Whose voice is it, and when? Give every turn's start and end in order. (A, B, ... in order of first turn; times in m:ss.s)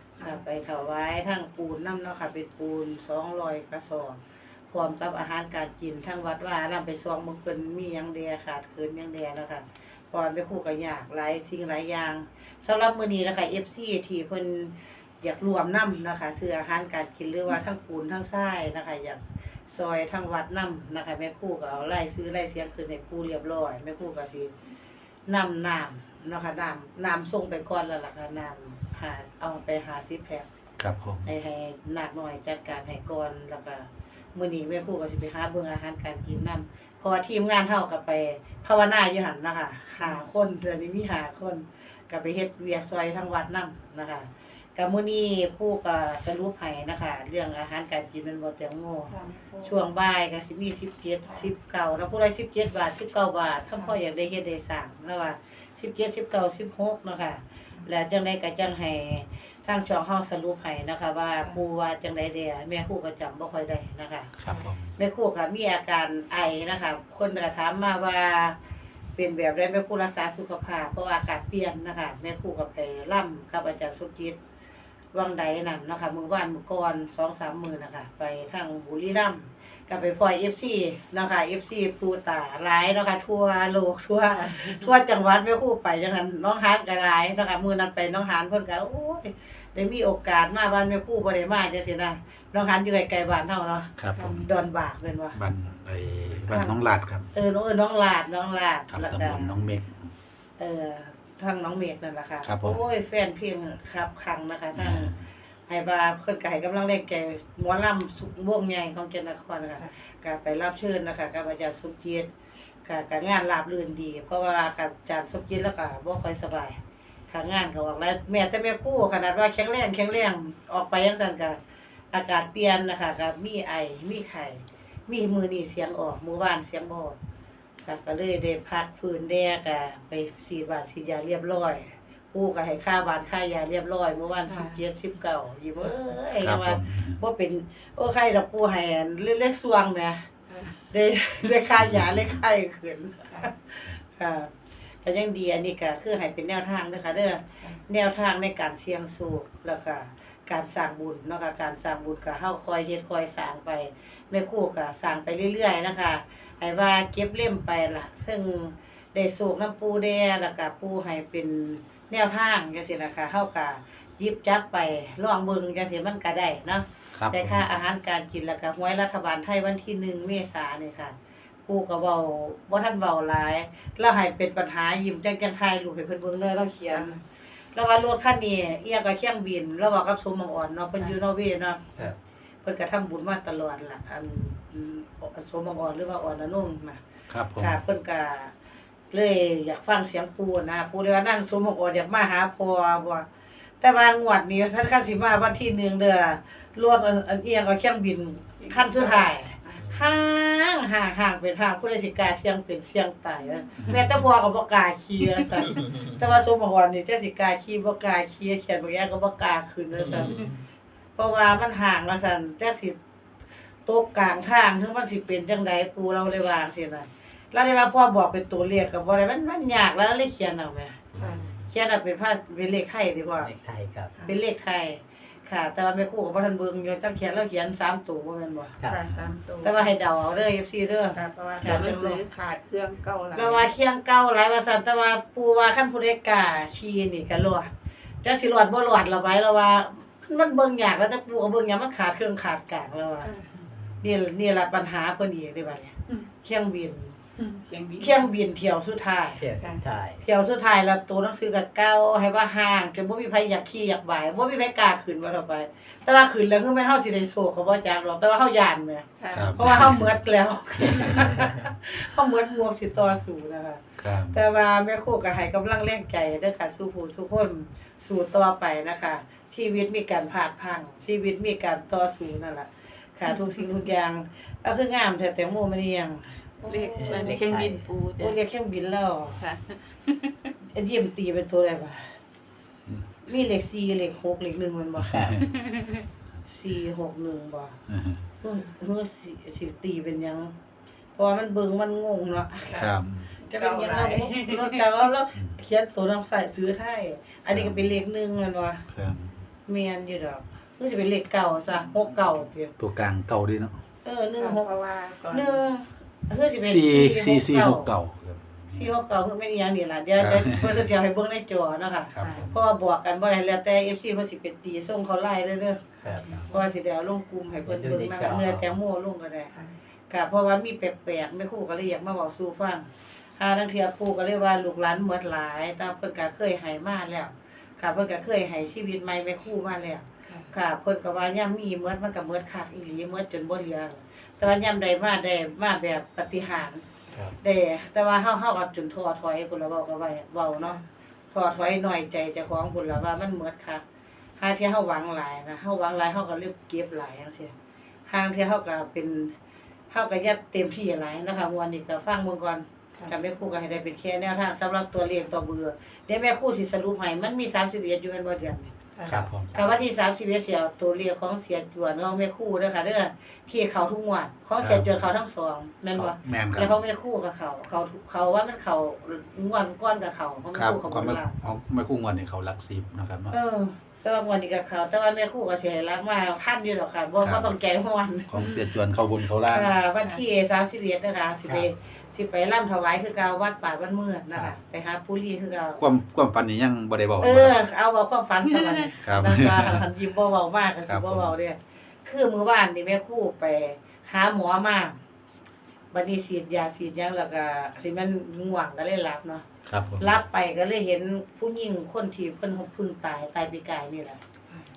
0:00.2-0:24.5 A
0:25.3-0:30.5 A
0:30.8-0:31.3 B
0:31.2-1:04.3 A
0:49.1-0:49.8 C
1:04.4-1:04.9 B
1:05.0-1:08.6 A
1:09.2-1:14.4 A
1:15.1-1:35.4 A
1:24.4-1:24.8 C
1:34.0-1:34.5 B
1:34.2-1:34.4 C
1:35.4-1:37.3 B
1:36.5-1:36.8 A
1:37.3-1:39.6 A
1:38.9-1:40.1 B
1:40.6-1:45.1 A
1:42.4-1:42.8 B
1:44.8-1:45.3 B
1:45.7-1:52.3 A
1:52.8-2:01.6 A
2:02.1-2:07.2 A
2:07.8-2:20.3 A
2:14.5-2:14.8 C
2:16.4-2:17.2 B
2:20.5-2:20.8 C
2:20.9-2:24.5 A
2:21.8-2:22.4 B
2:25.0-2:51.2 A
2:47.2-2:47.7 B
2:51.7-2:57.2 A
2:56.9-2:57.2 C
2:57.8-3:07.0 A
3:07.3-3:07.8 B
3:07.6-3:08.5 A
3:09.1-3:13.3 A
3:13.8-3:30.5 A
3:18.6-3:20.0 C
3:23.8-3:24.2 B
3:31.2-3:33.0 A
3:33.9-3:41.0 A
3:41.1-3:41.6 B
3:41.2-3:41.5 C
3:41.7-3:43.5 A
3:43.4-3:44.2 D
3:44.3-3:48.8 A
3:48.8-3:49.0 D
3:48.8-3:49.9 C
3:49.6-3:52.2 A
3:51.1-3:53.7 C
3:53.3-3:57.7 A
3:58.2-4:03.3 A
4:03.2-4:03.6 C
4:04.0-4:07.2 A
4:07.4-4:08.3 C
4:08.0-4:09.4 A
4:09.4-4:10.2 D
4:09.6-4:09.9 C
4:10.2-4:37.5 A
4:19.2-4:19.6 C
4:19.3-4:20.1 B
4:24.0-4:24.4 B
4:36.6-4:38.4 C
4:37.0-4:37.9 D
4:38.2-4:39.4 A
4:39.4-4:40.3 C
4:40.7-4:42.1 A
4:43.2-4:45.4 A
4:45.1-4:45.6 D
4:45.1-4:45.4 B
4:46.5-4:47.8 A
4:47.9-4:48.2 B
4:48.4-4:50.5 A
4:51.2-4:52.8 A
4:52.7-4:54.8 C
4:52.7-4:53.3 B
4:53.5-4:58.8 A
4:57.5-4:57.9 B
4:58.9-4:59.4 B
4:59.7-5:02.7 A
5:02.8-5:03.8 B
5:04.0-5:04.7 A
5:04.4-5:05.6 C
5:05.3-5:07.9 A
5:06.6-5:08.9 B
5:08.7-5:15.8 A
5:10.2-5:10.9 B
5:12.1-5:12.6 B
5:16.0-5:16.6 C
5:16.0-5:16.5 D
5:16.5-5:19.5 A
5:17.7-5:18.7 D
5:20.1-5:36.8 A
5:37.4-5:40.8 A
5:41.3-5:43.8 A
5:44.4-5:47.5 A
5:48.1-5:49.3 A
5:49.9-5:58.7 A
5:59.0-5:59.2 C
5:59.1-5:59.6 B
5:59.5-6:11.4 A
6:04.6-6:05.0 B
6:05.9-6:06.8 B
6:10.5-6:13.3 B
6:13.3-6:18.3 A
6:17.2-6:17.5 B
6:18.3-6:19.8 B
6:19.4-6:25.8 A
6:25.8-6:27.6 B
6:27.2-6:35.0 A
6:29.0-6:29.8 B
6:30.8-6:31.4 B
6:35.9-6:39.4 A
6:39.7-6:40.2 B
6:40.0-6:44.2 A